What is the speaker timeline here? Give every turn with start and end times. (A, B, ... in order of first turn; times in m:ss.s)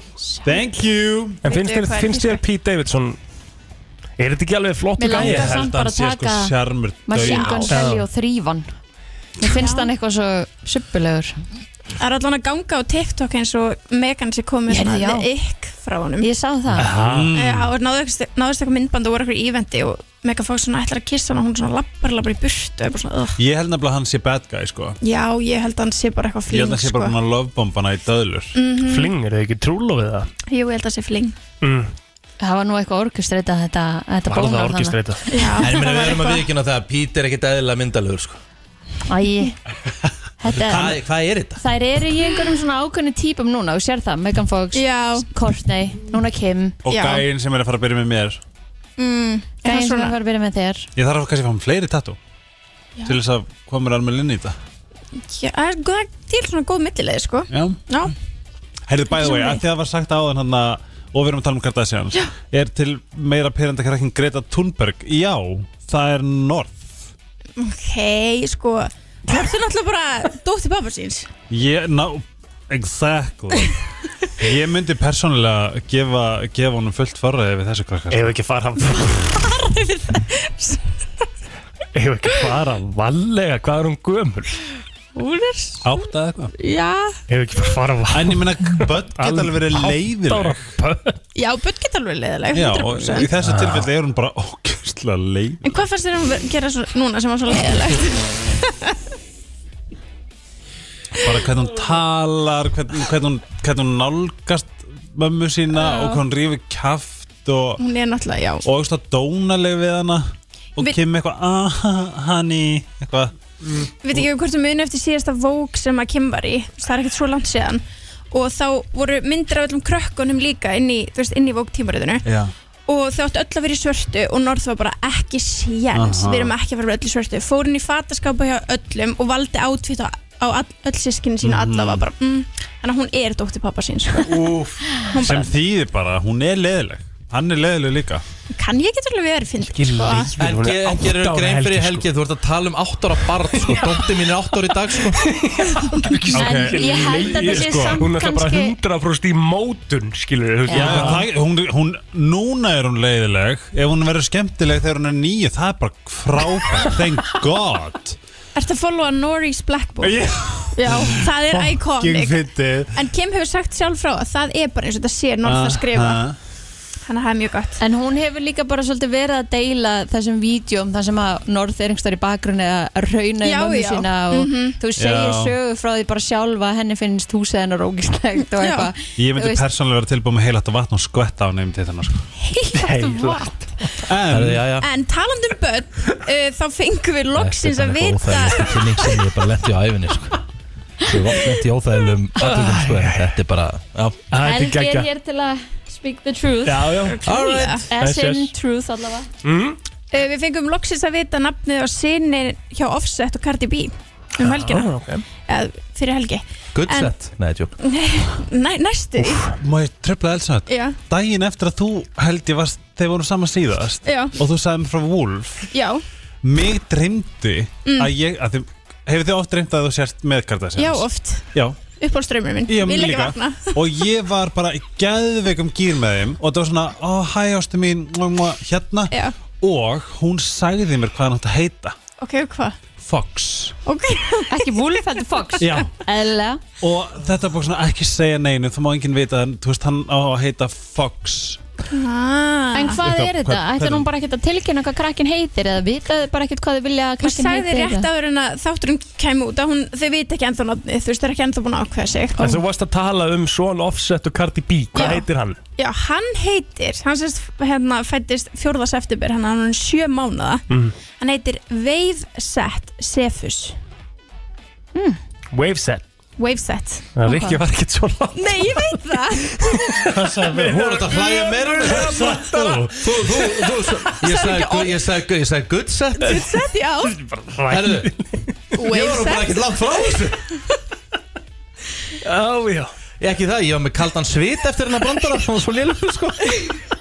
0:00.2-0:00.8 A
0:00.4-0:01.4 B
0:01.4-0:03.2 C
0:01.5-0:02.4 A
0:04.2-0:05.7 C
0:05.0-0:08.7 D
0:05.1-0:07.7 B
0:07.2-0:07.7 A
0:07.7-0:08.0 C
0:09.4-0:11.4 D
0:09.4-0:09.9 A
0:12.0-0:16.3 A
0:14.7-0:15.3 D
0:16.2-0:16.9 D
0:16.8-0:17.7 B
0:16.8-0:17.3 C
0:17.3-0:23.4 A
0:23.4-0:25.0 B
0:25.0-0:27.1 A
0:26.5-0:28.6 B
0:28.6-0:29.1 A
0:28.8-0:30.3 C
0:30.5-0:31.4 A
0:31.6-0:31.9 C
0:32.4-0:35.4 D
0:34.3-0:35.2 C
0:35.3-0:36.4 A
0:35.6-0:38.4 E
0:39.1-0:39.6 D
0:40.4-0:46.7 D
0:40.7-0:41.6 E
0:44.7-0:45.3 A
0:46.9-0:48.4 B
0:46.9-0:47.2 A
0:49.0-0:50.2 A
0:49.6-0:50.9 D
0:51.0-0:52.2 B
0:53.0-0:54.6 B
0:55.3-0:58.1 A
0:57.5-0:57.8 B
0:58.9-1:06.8 B
0:59.1-0:59.6 A
1:07.6-1:11.3 A
1:11.5-1:13.8 B
1:14.4-1:18.4 B
1:18.1-1:19.2 C
1:19.0-1:20.8 A
1:21.9-1:24.6 C
1:25.1-1:25.9 A
1:25.8-1:26.5 B
1:26.6-1:27.2 A
1:27.3-1:31.2 C
1:28.1-1:30.6 B
1:31.4-1:33.3 A
1:32.5-1:35.8 B
1:33.4-1:33.9 C
1:35.6-1:39.0 A
1:41.2-1:47.8 B
1:45.7-1:46.2 A
1:47.8-1:48.7 A
1:48.7-1:53.3 B
1:54.0-2:02.2 A
2:02.2-2:02.5 B
2:02.9-2:14.5 A
2:05.9-2:06.6 B
2:11.4-2:12.1 B
2:14.3-2:18.2 B
2:15.0-2:15.5 A
2:18.5-2:20.4 A
2:19.7-2:22.1 C
2:20.4-2:25.3 E
2:23.5-2:24.0 C
2:25.1-2:31.3 C
2:26.3-2:28.0 B
2:26.4-2:28.7 D
2:30.7-2:31.2 D
2:30.7-2:38.2 B
2:38.6-2:40.2 A
2:40.0-2:43.0 B
2:40.7-2:46.2 A
2:45.4-2:46.4 B
2:47.0-2:47.8 A
2:47.8-2:59.6 D
2:53.4-2:54.8 A
2:55.0-2:55.6 B
2:58.6-2:58.9 A
2:59.2-3:02.2 B
3:02.4-3:03.4 A
3:04.0-3:04.7 B
3:04.2-3:04.9 E
3:04.8-3:09.0 A
3:07.4-3:10.4 E
3:11.0-3:14.2 E
3:12.4-3:13.3 C
3:14.3-3:15.1 C
3:14.4-3:17.0 D
3:16.6-3:17.3 C
3:17.1-3:17.9 A
3:17.2-3:17.9 E
3:17.9-3:19.3 D
3:17.9-3:18.5 C
3:19.4-3:19.8 C
3:20.1-3:24.9 A
3:24.4-3:25.2 C
3:25.4-3:27.2 A
3:26.7-3:27.7 E
3:27.8-3:29.5 A
3:29.6-3:35.7 B
3:30.7-3:31.0 A
3:34.0-3:34.4 A
3:35.7-3:36.0 A
3:36.4-3:41.8 B
3:37.8-3:38.1 A
3:40.8-3:43.8 A
3:42.7-3:52.0 B
3:49.1-3:49.4 A
3:52.2-3:52.8 A
3:53.0-3:53.7 B
3:53.8-3:55.8 A
3:54.5-3:56.6 D
3:55.6-3:55.9 B
3:56.8-4:01.6 B
4:01.9-4:03.0 A
4:02.7-4:08.1 D
4:03.0-4:04.0 B
4:07.2-4:12.6 A
4:12.4-4:15.6 C
4:14.9-4:20.6 A
4:21.2-4:23.8 A
4:25.5-4:26.0 C
4:26.4-4:27.1 A
4:27.2-4:33.9 C
4:27.2-4:27.6 D
4:28.4-4:29.8 A
4:30.1-4:30.9 B
4:30.5-4:36.5 E
4:32.0-4:32.7 B
4:34.2-4:35.0 A
4:36.2-4:37.2 A
4:37.0-4:38.4 C
4:37.7-4:38.1 E
4:38.7-4:39.6 A
4:38.8-4:40.4 E
4:42.2-4:42.9 C
4:43.2-4:46.5 E